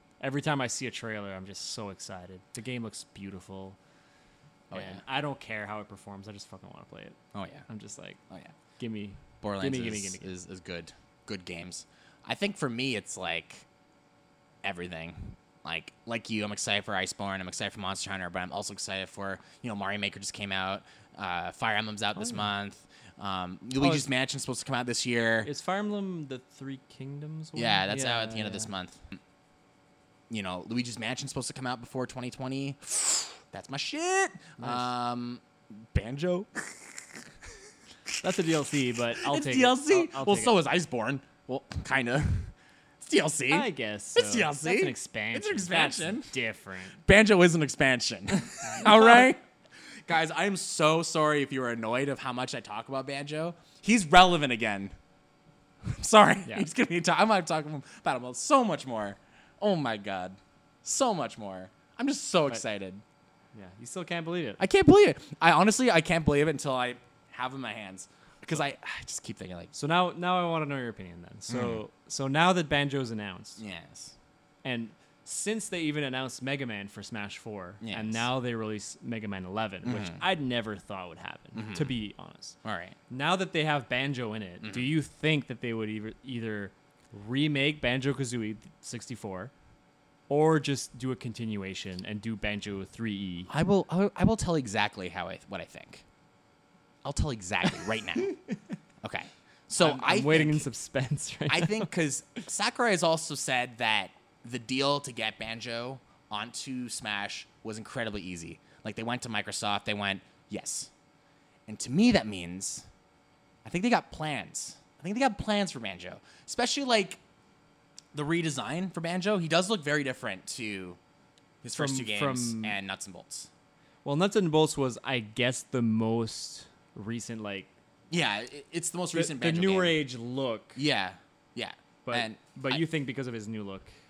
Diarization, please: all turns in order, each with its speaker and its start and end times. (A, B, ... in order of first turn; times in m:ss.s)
0:00.2-0:03.8 A
0:04.7-0:05.0 B
0:04.7-0:07.2 A
0:07.3-0:07.6 B
0:07.7-0:08.2 A
0:08.3-0:08.6 B
0:08.8-0:10.3 A
0:09.4-0:13.7 B
0:14.6-0:25.5 B
0:22.2-0:22.5 A
0:23.8-0:24.1 A
0:25.4-0:28.7 A
0:27.6-0:29.2 B
0:30.3-0:37.2 B
0:34.6-0:34.9 A
0:38.2-0:40.5 A
0:39.2-0:46.3 B
0:43.5-0:47.0 A
0:47.1-0:49.4 B
0:50.1-0:54.9 B
0:55.9-1:03.0 B
1:03.5-1:04.6 A
1:04.6-1:09.7 B
1:09.7-1:13.6 A
1:11.5-1:11.8 B
1:13.6-1:14.1 B
1:14.6-1:22.6 A
1:17.8-1:18.3 B
1:19.8-1:20.2 B
1:21.5-1:22.0 B
1:22.6-1:23.0 B
1:23.1-1:29.5 A
1:24.6-1:24.9 B
1:30.3-1:33.5 A
1:33.5-1:36.0 B
1:37.0-1:38.4 B
1:38.2-1:38.6 A
1:39.0-1:40.7 B
1:39.8-1:41.9 A
1:41.5-1:50.9 B
1:51.7-1:52.9 B
1:53.6-1:57.2 B
1:58.1-2:01.0 B
2:01.6-2:03.5 B
2:01.7-2:02.8 A
2:04.0-2:07.7 A
2:08.1-2:10.0 B
2:09.1-2:10.8 A
2:10.8-2:12.8 B
2:12.0-2:13.9 A